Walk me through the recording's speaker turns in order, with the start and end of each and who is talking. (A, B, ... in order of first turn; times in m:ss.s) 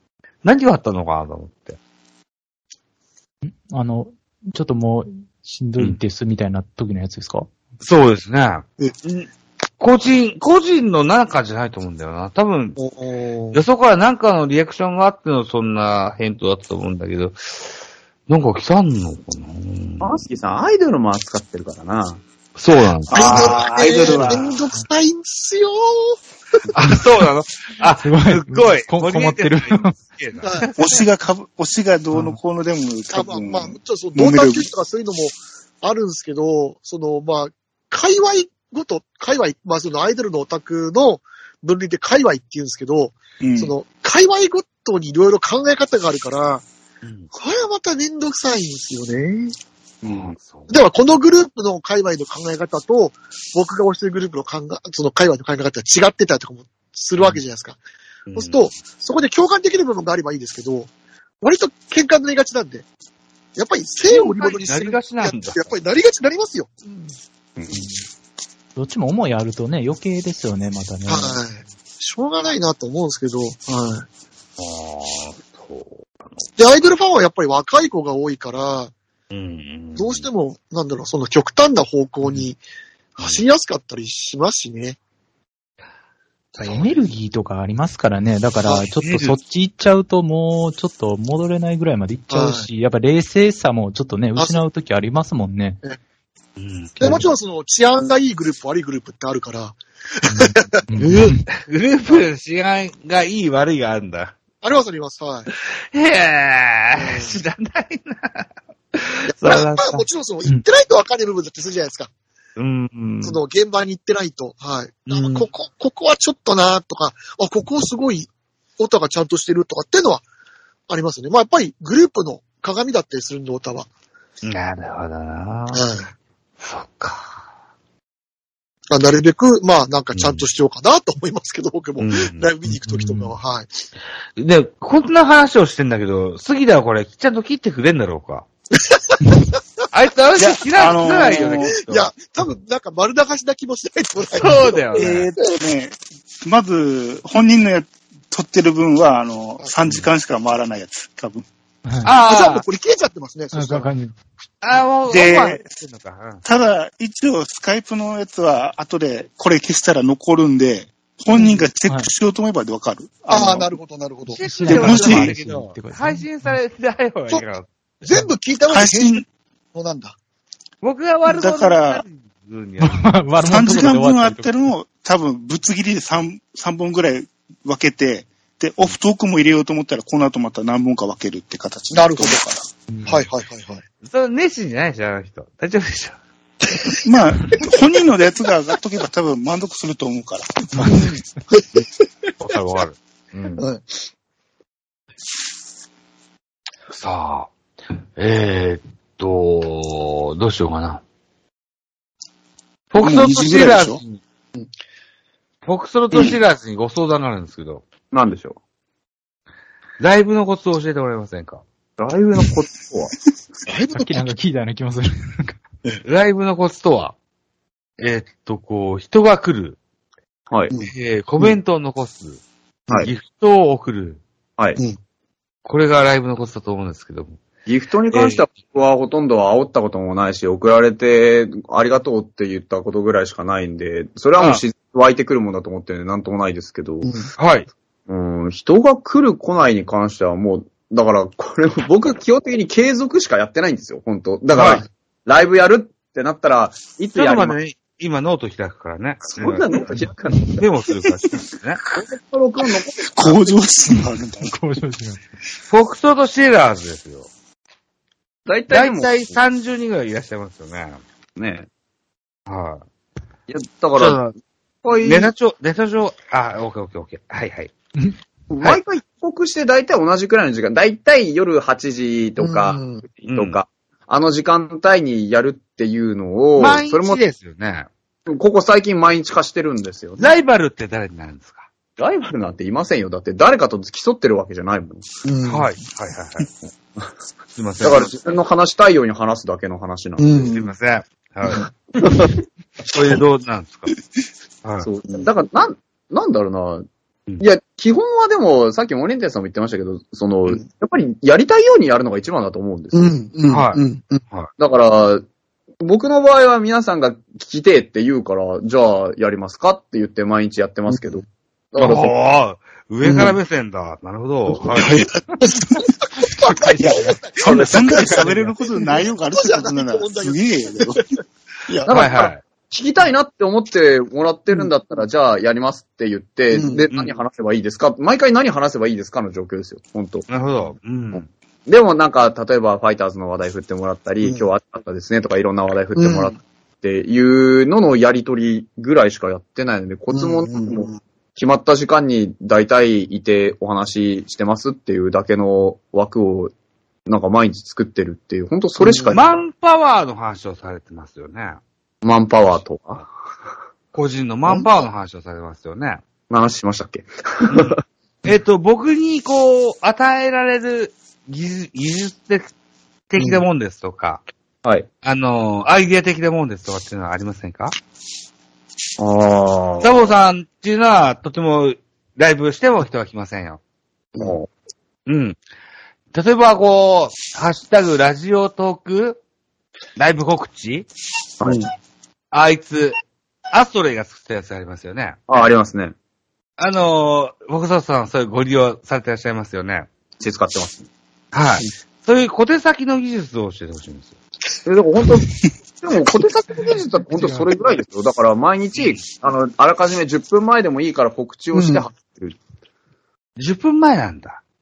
0:00.4-0:01.8 A
0:03.4-0:07.5 B
0:07.8-0:12.8 A
0:12.8-0:13.6 C
0:13.5-0:17.7 A
0:18.3-0:20.1 A
0:20.0-0:22.2 D
0:22.6-0:24.6 A
0:23.1-0:24.5 E
0:23.1-0:26.8 C
0:26.8-0:30.8 A
0:27.9-0:30.0 B
0:30.4-0:30.7 C
0:30.8-0:34.7 E
0:32.1-0:32.4 B
0:33.1-0:46.6 C
0:43.4-0:43.7 E
0:47.3-0:49.6 C
0:50.0-0:50.8 A
0:50.1-0:50.3 E
0:50.7-0:57.8 C
0:58.3-0:58.8 A
0:58.4-1:00.9 C
1:01.4-1:02.8 C
1:03.6-1:07.2 C
1:04.0-1:05.7 A
1:08.8-1:11.4 B
1:11.1-1:14.1 C
1:14.6-1:16.5 A
1:16.6-1:18.9 C
1:19.3-1:20.3 A
1:20.0-1:22.6 C
1:23.2-1:25.0 C
1:26.6-1:35.8 B
1:29.0-1:29.4 A
1:32.3-1:32.7 C
1:34.4-1:34.6 C
1:36.6-1:37.2 A
1:37.0-1:41.4 C
1:40.3-1:41.5 B
1:41.0-1:44.4 A
1:44.6-1:45.5 C
1:45.5-1:50.0 A
1:46.9-1:47.4 C
1:49.3-1:52.1 C
1:52.6-1:53.4 A
1:53.2-2:00.2 C
1:55.1-1:55.5 A
2:00.9-2:03.9 C
2:04.4-2:05.8 A
2:05.7-2:06.1 C
2:06.6-2:07.4 A
2:08.9-2:13.7 C
2:10.1-2:10.5 A
2:12.0-2:12.5 A
2:12.7-2:13.3 B
2:14.4-2:18.5 A
2:18.7-2:19.6 C
2:19.9-2:22.1 A
2:20.4-2:21.8 E
2:20.9-2:25.3 C
2:24.3-2:25.3 A
2:25.0-2:31.5 E
2:31.9-2:32.1 B
2:32.0-2:32.6 A
2:32.1-2:33.9 C
2:33.5-2:34.2 B
2:34.6-2:36.4 A
2:35.1-2:35.6 E
2:36.4-2:43.8 E
2:41.3-2:41.7 C
2:43.3-2:45.2 C
2:44.3-2:46.6 B
2:44.4-2:47.7 A
2:44.7-2:45.4 E
2:48.0-2:49.2 C
2:48.7-2:49.2 E
2:49.7-2:50.2 C
2:50.8-2:53.1 A
2:51.3-2:52.0 E
2:52.8-2:54.5 B
2:53.5-3:02.7 E
3:01.9-3:02.4 C
3:02.9-3:03.3 B
3:03.1-3:03.8 C
3:04.0-3:07.0 A
3:07.0-3:10.9 E
3:10.8-3:11.7 C
3:12.4-3:13.6 A
3:13.6-3:13.9 C
3:16.9-3:17.5 A
3:18.2-3:21.0 A
3:22.9-3:24.2 A
3:23.0-3:24.0 E
3:25.6-3:27.8 A
3:28.1-3:28.6 D
3:30.0-3:31.6 A
3:32.0-3:33.1 D
3:33.7-3:34.3 C
3:33.9-3:35.6 B
3:36.0-3:37.2 A
3:38.0-3:39.8 A
3:40.5-3:40.8 D
3:40.7-3:41.5 C
3:40.8-3:42.4 A
3:42.9-3:44.2 A
3:45.6-3:47.4 A
3:47.7-3:57.1 D
3:48.1-3:48.4 A
3:57.0-3:57.3 C
3:57.4-3:57.7 A
3:58.1-4:07.6 D
4:04.6-4:04.8 A
4:07.2-4:09.7 A
4:09.3-4:10.7 D
4:10.6-4:11.8 A
4:11.9-4:13.5 D
4:13.0-4:14.6 E
4:13.9-4:15.2 B
4:15.7-4:17.3 A
4:18.5-4:19.3 D
4:18.7-4:21.0 A
4:21.4-4:21.7 D
4:22.5-4:22.8 A
4:23.5-4:24.2 D
4:24.0-4:24.4 A
4:24.8-4:25.3 D
4:25.0-4:27.7 A
4:28.5-4:37.2 D
4:32.4-4:33.0 C
4:33.3-4:33.6 A
4:36.6-4:37.9 A
4:38.3-4:40.3 D
4:40.2-4:41.7 A
4:42.0-4:45.1 D
4:45.2-4:45.7 C
4:45.4-4:46.5 A
4:47.6-4:48.4 A
4:47.8-4:50.5 D
4:50.2-4:50.7 C
4:50.5-4:51.7 A
4:52.0-4:52.3 D
4:52.8-4:54.0 A
4:54.8-4:56.9 D
4:57.4-5:03.2 D
5:02.9-5:04.2 C
5:03.5-5:04.5 A
5:04.6-5:05.2 D
5:05.8-5:12.1 D
5:10.9-5:11.2 C
5:11.8-5:15.1 A
5:13.0-5:13.4 C
5:14.7-5:21.0 C
5:16.8-5:21.0 E
5:17.9-5:18.5 B
5:21.8-5:30.3 D
5:21.9-5:22.4 A
5:26.5-5:26.9 C
5:30.3-5:31.3 A
5:31.1-5:46.5 D
5:36.0-5:36.4 C
5:40.1-5:41.0 C
5:47.1-5:49.3 D
5:48.8-5:49.2 C
5:49.1-5:51.6 A
5:52.0-5:53.1 D
5:53.9-5:56.0 A
5:56.3-5:57.8 D
5:57.5-6:02.5 A
6:03.1-6:04.2 A
6:05.0-6:07.8 A
6:09.0-6:10.1 D
6:09.8-6:13.6 A
6:14.2-6:14.5 D
6:15.1-6:15.4 A
6:16.1-6:19.2 A
6:20.0-6:20.9 A
6:21.4-6:21.7 D
6:22.3-6:23.0 A
6:23.5-6:25.2 A
6:25.3-6:26.0 D
6:26.6-6:29.9 A
6:30.2-6:30.9 D
6:31.3-6:34.2 A
6:34.6-6:35.3 D
6:35.8-6:42.4 D
6:38.8-6:39.0 A
6:41.5-6:41.8 C
6:43.4-6:44.4 A